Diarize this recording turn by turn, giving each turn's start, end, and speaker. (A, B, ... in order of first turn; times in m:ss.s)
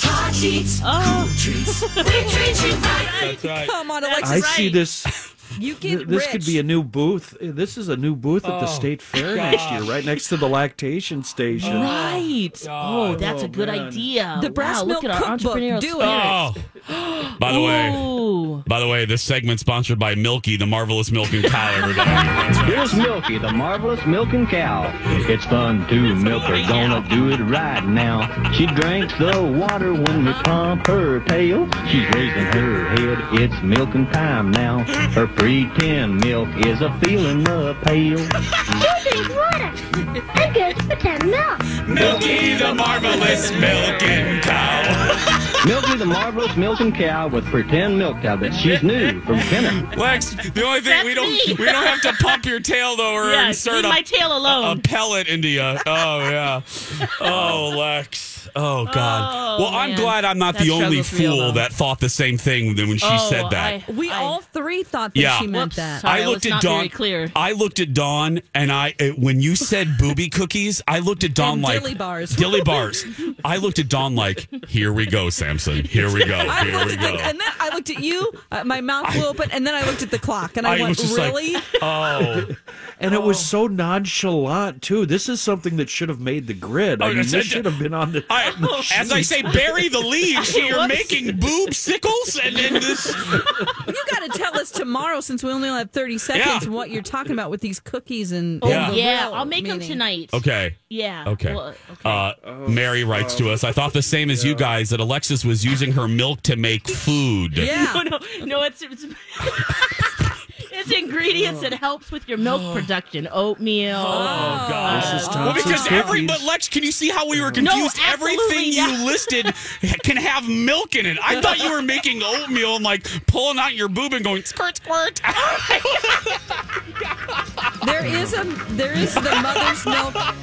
0:00.2-0:00.8 A
0:00.4-0:04.9 B
0:03.1-0:03.7 C
0:03.6-0:04.5 A
0:04.2-0:05.1 D
0:05.6-0:06.6 A
0:05.8-0:12.0 D
0:08.4-0:09.9 C
0:09.2-0:10.0 B
0:11.6-0:18.6 B
0:11.6-0:13.3 C
0:13.1-0:14.1 D
0:14.4-0:16.2 A
0:16.0-0:16.7 C
0:17.4-0:23.1 C
0:21.7-0:22.1 B
0:22.5-0:22.8 D
0:22.6-0:38.3 E
0:26.0-0:27.2 C
0:26.1-0:27.0 B
0:34.9-0:35.2 C
0:38.8-0:39.8 F
0:40.3-0:44.0 F
0:41.7-0:45.9 C
0:43.0-0:44.3 B
0:45.6-0:49.8 E
0:48.5-0:48.8 C
0:49.3-1:03.8 C
0:50.5-0:52.4 B
0:53.2-0:54.8 B
0:55.8-0:56.5 B
0:57.2-0:57.6 B
0:58.8-1:01.7 B
1:03.0-1:04.4 B
1:03.8-1:06.1 A
1:05.1-1:05.5 C
1:05.5-1:07.4 B
1:06.0-1:17.3 C
1:11.4-1:13.3 A
1:16.1-1:16.8 B
1:16.4-1:21.7 A
1:19.0-1:19.3 C
1:20.6-1:22.5 C
1:23.0-1:29.7 D
1:23.1-1:23.5 C
1:27.0-1:33.4 C
1:28.4-1:29.7 B
1:30.3-1:31.4 B
1:32.6-1:33.7 B
1:33.8-1:40.0 A
1:36.3-1:36.7 C
1:38.6-1:42.1 B
1:38.6-1:39.0 C
1:40.3-1:47.7 C
1:42.1-1:44.8 D
1:47.5-1:48.0 A
1:47.6-1:56.2 B
1:51.3-1:51.7 D
1:52.4-1:52.9 C
1:53.9-2:06.4 C
1:54.1-1:56.2 A
1:54.4-1:56.5 D
1:57.3-1:57.7 D
1:57.6-1:59.5 B
2:05.4-2:06.2 B
2:07.8-2:10.2 A
2:08.0-2:08.4 D
2:09.3-2:10.0 C